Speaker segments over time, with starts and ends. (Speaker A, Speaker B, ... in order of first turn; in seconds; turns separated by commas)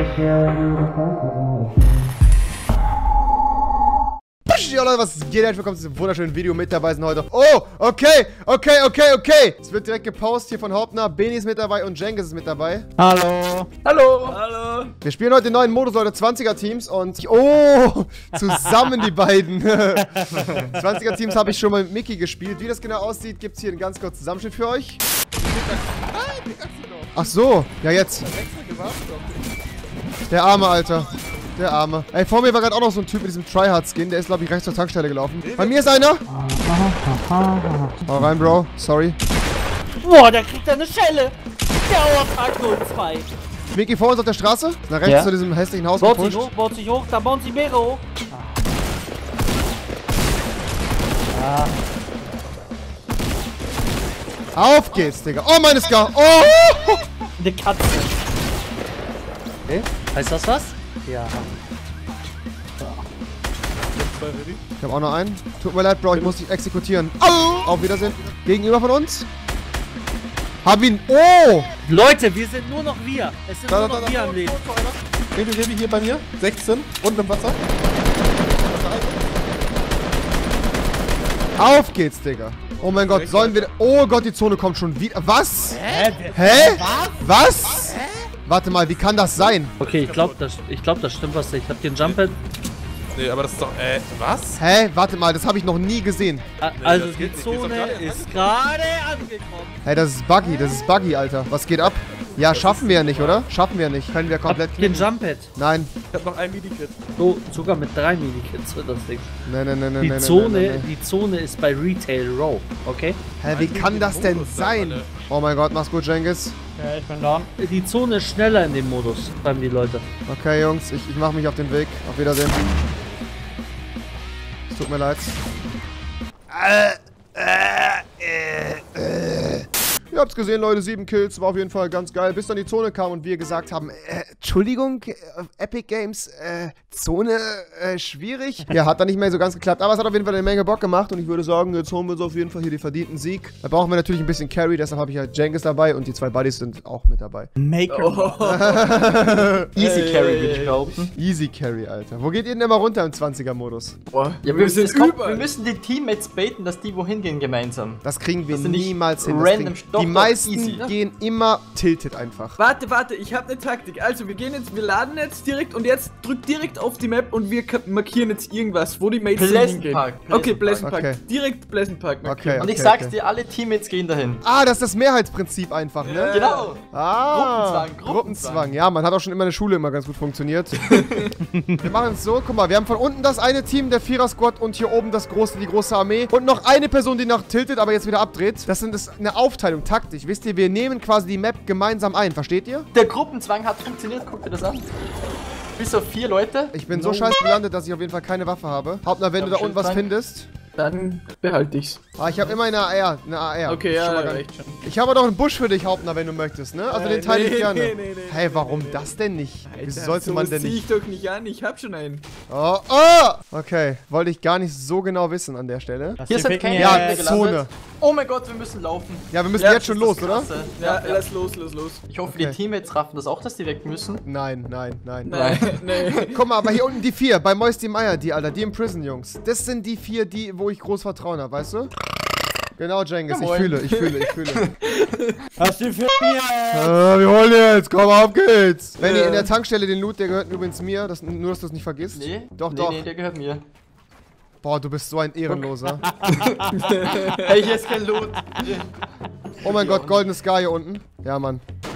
Speaker A: 4.5-12.9, Speaker B: 13.0-13.7, Speaker C: 13.8-14.4, Speaker D: 14.2-14.9, Speaker A: 15.0-25.0, Speaker E: 25.4-27.1, Speaker A: 27.1-28.3, Speaker E: 28.2-29.4, Speaker A: 30.3-36.2, Speaker E: 35.5-35.8, Speaker B: 36.3-38.0, Speaker A: 38.0-39.1, Speaker F: 40.0-43.3, Speaker A: 43.7-46.5, Speaker F: 45.0-45.3, Speaker F: 46.0-48.0, Speaker F: 51.3-51.7, Speaker A: 54.5-57.0, Speaker F: 57.4-58.1, Speaker F: 59.7-61.5, Speaker E: 64.0-64.6, Speaker A: 64.8-69.3, Speaker A: 70.6-71.7, Speaker F: 71.8-74.5, Speaker A: 73.7-74.9, Speaker E: 75.4-77.5, Speaker E: 78.8-79.1, Speaker A: 81.6-89.8, Speaker E: 82.8-83.7, Speaker B: 85.8-87.1, Speaker F: 89.8-92.4, Speaker E: 89.9-90.4, Speaker E: 93.1-94.6, Speaker A: 94.5-96.4, Speaker F: 96.6-99.8, Speaker E: 96.8-98.3, Speaker A: 99.8-105.9, Speaker E: 102.5-103.3, Speaker C: 102.5-103.2, Speaker F: 104.4-105.5, Speaker E: 106.1-107.0, Speaker F: 107.2-109.3, Speaker A: 109.5-110.9, Speaker F: 110.0-113.2, Speaker A: 113.4-116.5, Speaker E: 113.5-115.1, Speaker B: 116.8-117.5, Speaker F: 117.5-120.0, Speaker A: 120.3-122.6, Speaker A: 124.7-125.4, Speaker A: 126.5-147.5, Speaker B: 147.6-148.4, Speaker D: 147.9-150.9, Speaker A: 148.4-149.7, Speaker C: 149.8-151.1, Speaker A: 151.2-153.9, Speaker D: 154.1-155.5, Speaker C: 154.4-160.9, Speaker A: 158.0-162.6, Speaker D: 162.6-172.7, Speaker C: 169.3-170.8, Speaker A: 170.8-171.2, Speaker A: 172.2-173.1, Speaker C: 172.6-174.4, Speaker A: 174.4-176.4, Speaker D: 176.0-176.7, Speaker C: 176.3-178.8, Speaker A: 176.9-180.8, Speaker A: 181.8-192.9, Speaker C: 192.9-194.9, Speaker C: 195.8-196.8, Speaker A: 196.7-200.5, Speaker C: 199.3-200.1, Speaker D: 200.8-202.6, Speaker A: 202.2-210.8, Speaker D: 203.7-204.8, Speaker D: 206.9-209.1, Speaker D: 209.7-212.2, Speaker A: 212.5-216.2, Speaker B: 216.2-217.3, Speaker C: 216.3-219.3, Speaker A: 216.7-217.7, Speaker A: 219.3-220.5, Speaker D: 219.6-220.0, Speaker C: 219.9-221.3, Speaker D: 220.7-222.0, Speaker C: 222.1-224.2, Speaker A: 222.3-222.6, Speaker A: 224.2-225.3, Speaker D: 225.2-226.4, Speaker C: 225.3-226.3, Speaker A: 226.3-231.9, Speaker A: 232.8-234.7, Speaker C: 233.3-233.8, Speaker D: 234.8-235.4, Speaker B: 235.6-236.9, Speaker A: 236.7-243.0, Speaker D: 239.0-239.5, Speaker C: 242.1-243.6, Speaker A: 244.6-246.1, Speaker B: 246.0-247.4, Speaker C: 246.3-246.6, Speaker D: 246.7-247.5, Speaker C: 247.4-249.1, Speaker A: 249.6-251.6, Speaker C: 249.6-250.3